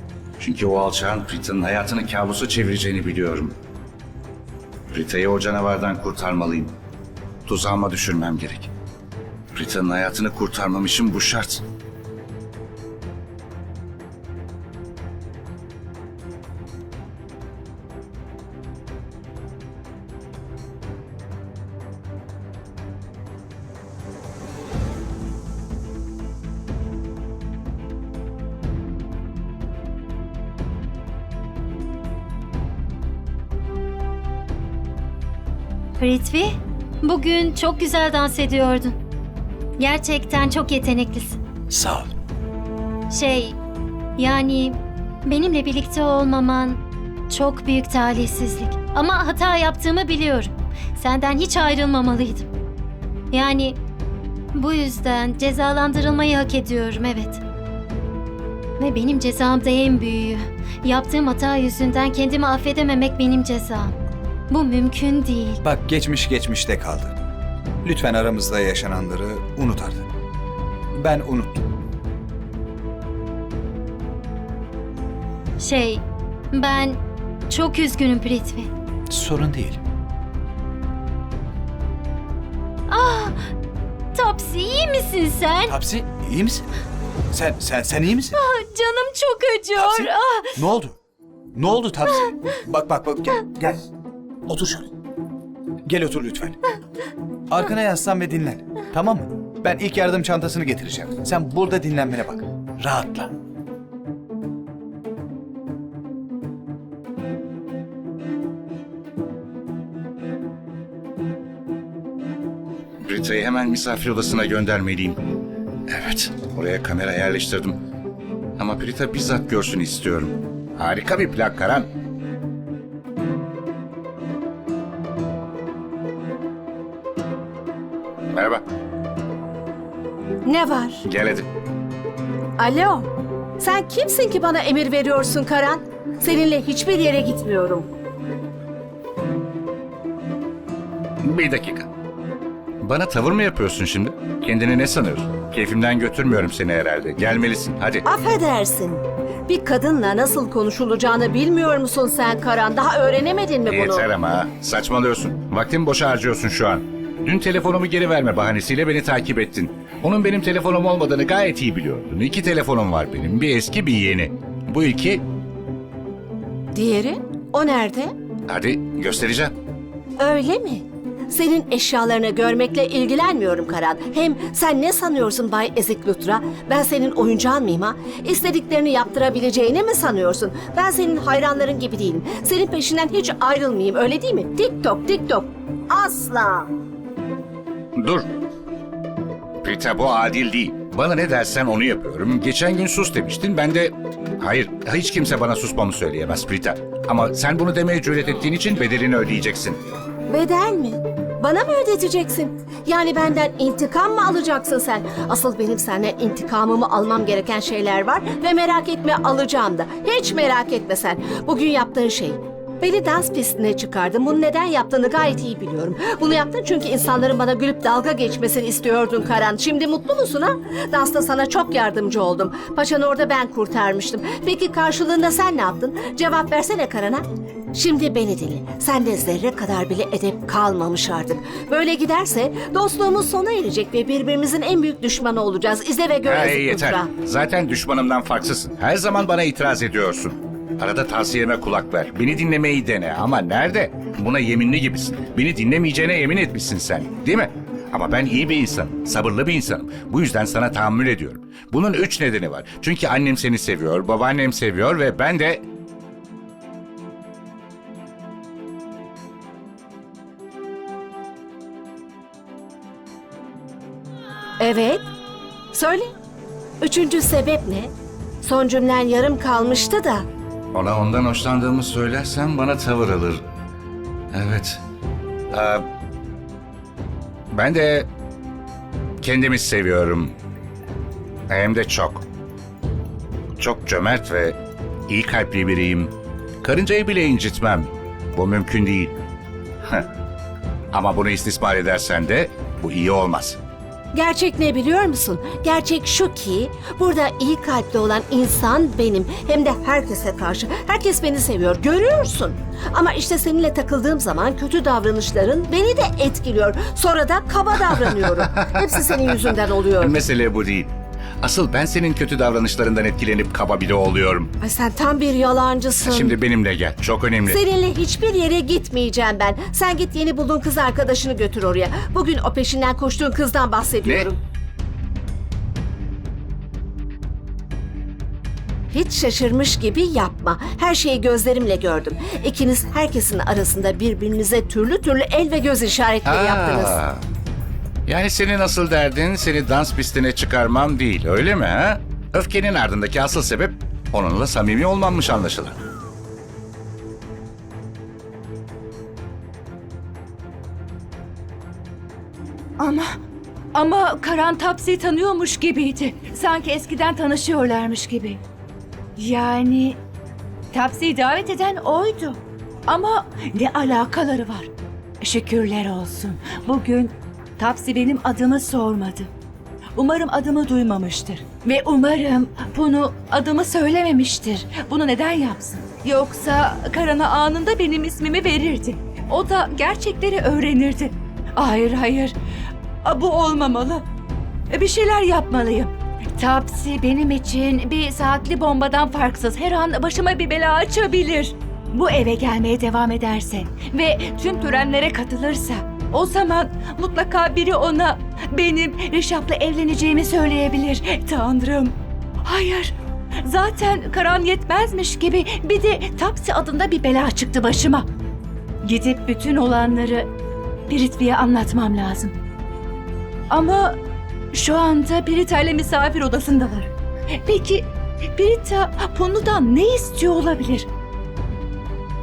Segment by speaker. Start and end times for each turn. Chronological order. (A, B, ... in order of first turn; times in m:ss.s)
0:00.4-0:03.5 A
0:04.9-0:06.7 A
0:07.5-0:08.7 A
0:09.5-0:11.6 A
0:36.0-0:39.0 B
0:39.8-0:41.4 B
0:41.7-0:42.1 C
0:43.1-0:43.6 B
0:44.2-0:52.5 B
0:53.3-0:53.8 B
0:54.5-0:57.4 B
0:58.8-1:04.0 B
1:04.5-1:05.6 B
1:05.6-1:07.2 C
1:07.8-1:10.1 C
1:11.0-1:11.6 C
1:15.6-1:18.7 B
1:19.1-1:19.8 C
1:22.9-1:23.4 B
1:24.1-1:25.8 B
1:25.7-1:26.6 C
1:27.3-1:28.4 C
1:28.3-1:30.6 B
1:29.8-1:31.0 C
1:31.5-1:33.8 C
1:34.5-1:34.9 C
1:35.9-1:36.6 C
1:37.5-1:43.3 C
1:53.0-1:55.2 A
1:55.9-1:57.8 A
1:58.6-2:01.9 A
2:08.3-2:08.6 A
2:10.4-2:11.0 D
2:11.0-2:11.5 A
2:12.6-2:13.1 D
2:13.6-2:17.9 D
2:21.2-2:21.9 A
2:22.8-2:28.0 A
2:28.0-2:34.1 D
2:33.7-2:45.2 A
2:46.8-2:48.1 D
2:48.5-2:49.5 A
2:50.2-3:06.7 D
3:08.0-3:08.2 A
3:09.6-3:19.8 A
3:20.3-3:57.1 D
3:56.2-4:15.6 A
4:24.6-4:25.0 D
4:25.7-4:26.1 D
4:26.8-4:27.9 D
4:28.4-4:30.3 D
4:30.7-4:33.4 A
4:34.3-4:34.8 A
4:35.5-4:35.8 A
4:37.5-4:38.1 A
4:39.2-4:40.3 A
4:41.5-4:42.2 A
4:43.6-4:44.6 A
4:45.1-4:49.1 A
4:50.9-4:53.6 A
4:54.1-5:10.1 D
5:08.4-5:10.9 A
5:11.4-5:14.5 A
5:14.6-5:16.4 D
5:16.0-5:17.6 A
5:17.4-5:24.4 D
5:28.9-5:37.0 D
5:36.3-5:37.2 A
5:38.0-5:45.8 A
5:52.8-5:53.2 E
5:53.7-5:58.4 E
5:59.2-6:00.0 E
6:00.7-6:04.7 E
6:05.2-6:09.3 E
6:10.0-6:22.3 E
6:23.0-6:24.0 E
6:24.7-6:42.0 E
6:42.5-6:48.1 E
6:48.8-6:50.3 E
6:50.9-6:52.4 E
6:53.5-6:54.0 E
6:54.5-6:56.9 E
6:57.4-7:00.9 E